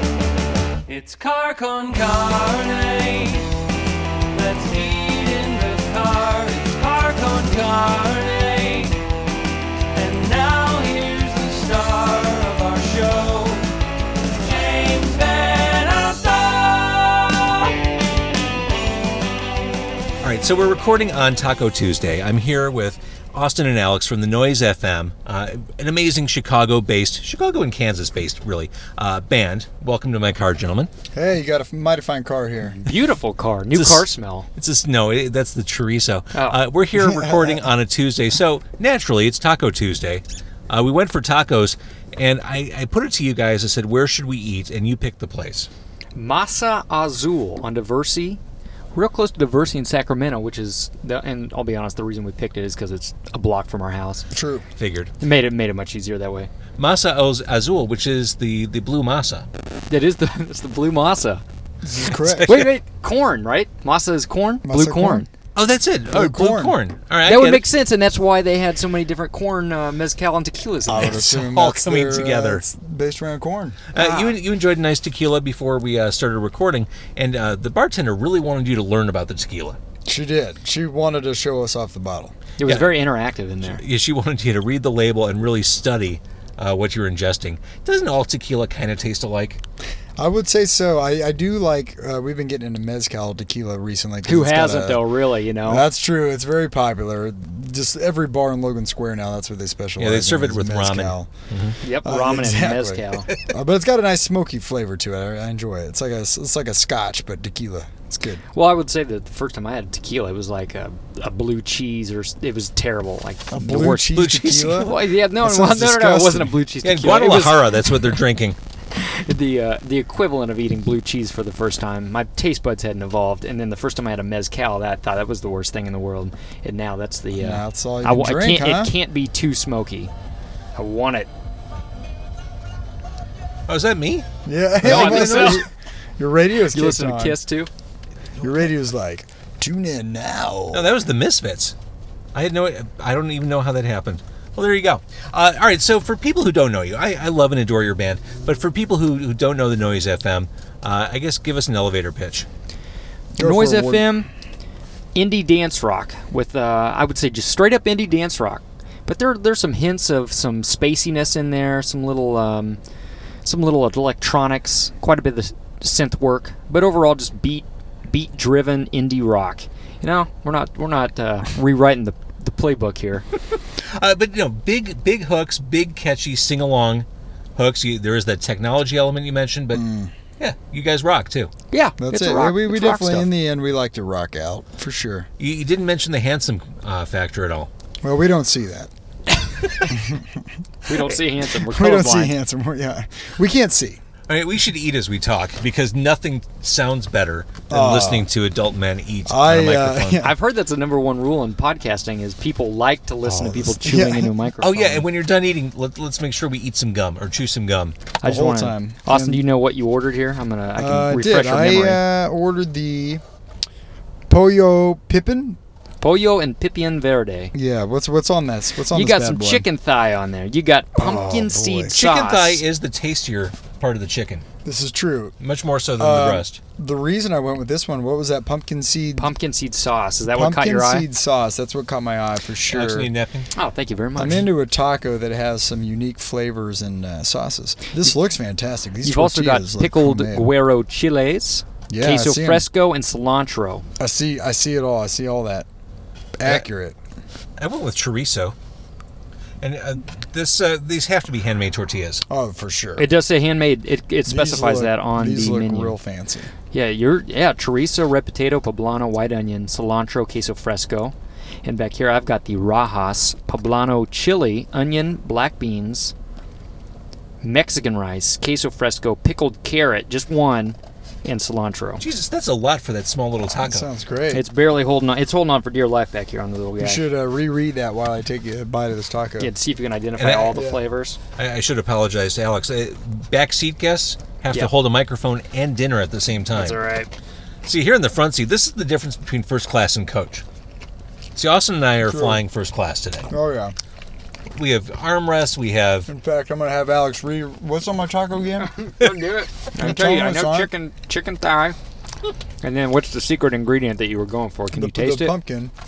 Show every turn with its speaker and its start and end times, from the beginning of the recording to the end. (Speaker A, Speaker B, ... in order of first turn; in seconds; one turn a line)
Speaker A: 0.9-3.5
Speaker A: 4.3-9.2
Speaker A: 9.9-13.7
Speaker A: 14.2-17.7
Speaker B: 20.2-30.9
Speaker C: 31.1-32.9
Speaker D: 32.9-34.5
Speaker B: 33.7-34.0
Speaker B: 34.5-45.7
Speaker D: 36.3-36.6
Speaker C: 36.9-37.6
Speaker D: 46.1-48.4
Speaker D: 48.9-54.2
Speaker C: 54.3-54.6
Speaker B: 54.8-55.1
Speaker D: 55.2-56.5
Speaker B: 56.8-59.5
Speaker D: 59.9-61.4
Speaker C: 61.8-62.6
Speaker B: 62.2-62.7
Speaker D: 62.4-65.3
Speaker C: 64.6-65.2
Speaker B: 65.5-67.6
Speaker C: 66.1-66.8
Speaker D: 67.2-71.2
Speaker C: 70.8-74.3
Speaker B: 70.9-72.6
Speaker B: 73.9-79.8
Speaker C: 80.0-82.3
Speaker D: 82.6-83.8
Speaker B: 82.6-82.9
Speaker B: 83.6-89.6
Speaker C: 90.2-95.0
Speaker D: 94.2-95.8
Speaker C: 95.6-101.3
Speaker B: 100.0-101.8
Speaker D: 101.8-103.3
Speaker C: 102.0-108.4
Speaker D: 108.5-118.1
Speaker C: 113.5-116.6
Speaker B: 114.1-114.9
Speaker B: 116.8-118.6
Speaker D: 118.9-130.1
Speaker C: 127.3-128.9
Speaker D: 130.7-131.3
Speaker B: 133.7-134.2
Speaker C: 134.4-137.4
Speaker D: 134.8-135.7
Speaker B: 134.8-135.6
Speaker D: 136.7-137.7
Speaker C: 138.4-140.9
Speaker B: 140.7-141.7
Speaker B: 142.3-152.5
Speaker C: 153.3-154.2
Speaker D: 153.4-154.3
Speaker D: 155.1-162.8
Speaker D: 163.4-173.2
Speaker B: 173.8-181.5
Speaker C: 179.7-180.1
Speaker D: 181.7-183.3
Speaker C: 182.0-185.3
Speaker B: 185.4-187.7
Speaker C: 188.0-188.9
Speaker C: 189.8-194.0
Speaker D: 190.9-192.3
Speaker B: 194.3-200.3
Speaker C: 197.7-198.3
Speaker C: 199.2-200.3
Speaker D: 200.2-205.1
Speaker C: 203.4-204.3
Speaker B: 204.6-208.0
Speaker D: 208.2-212.0
Speaker C: 208.2-209.4
Speaker C: 210.8-213.2
Speaker C: 214.3-215.6
Speaker D: 216.0-217.5
Speaker C: 217.5-219.7
Speaker D: 218.9-222.6
Speaker C: 220.9-222.0
Speaker B: 221.9-224.4
Speaker C: 224.6-225.3
Speaker B: 225.4-226.6
Speaker C: 226.0-229.3
Speaker D: 229.2-231.1
Speaker C: 230.3-233.1
Speaker B: 232.7-233.5
Speaker D: 233.5-234.5
Speaker C: 234.2-240.5
Speaker D: 239.0-243.8
Speaker C: 241.9-242.6
Speaker C: 244.0-245.7
Speaker C: 246.4-247.0
Speaker B: 247.6-248.5
Speaker B: 249.6-252.2
Speaker C: 252.3-253.1
Speaker D: 253.0-255.9
Speaker C: 254.2-256.5
Speaker D: 256.7-261.1
Speaker D: 261.6-266.1
Speaker D: 267.4-272.0
Speaker B: 272.0-273.9
Speaker C: 273.6-274.4
Speaker D: 274.3-277.0
Speaker C: 276.8-279.5
Speaker D: 279.4-281.2
Speaker B: 280.2-280.6
Speaker C: 280.5-280.8
Speaker B: 281.4-286.8
Speaker D: 286.5-287.1
Speaker B: 287.6-290.4
Speaker B: 291.3-293.3
Speaker C: 292.0-292.4
Speaker C: 293.3-293.7
Speaker B: 294.5-296.1
Speaker C: 296.1-298.7
Speaker D: 298.7-301.8
Speaker C: 299.7-300.7
Speaker D: 302.6-305.4
Speaker C: 304.7-305.7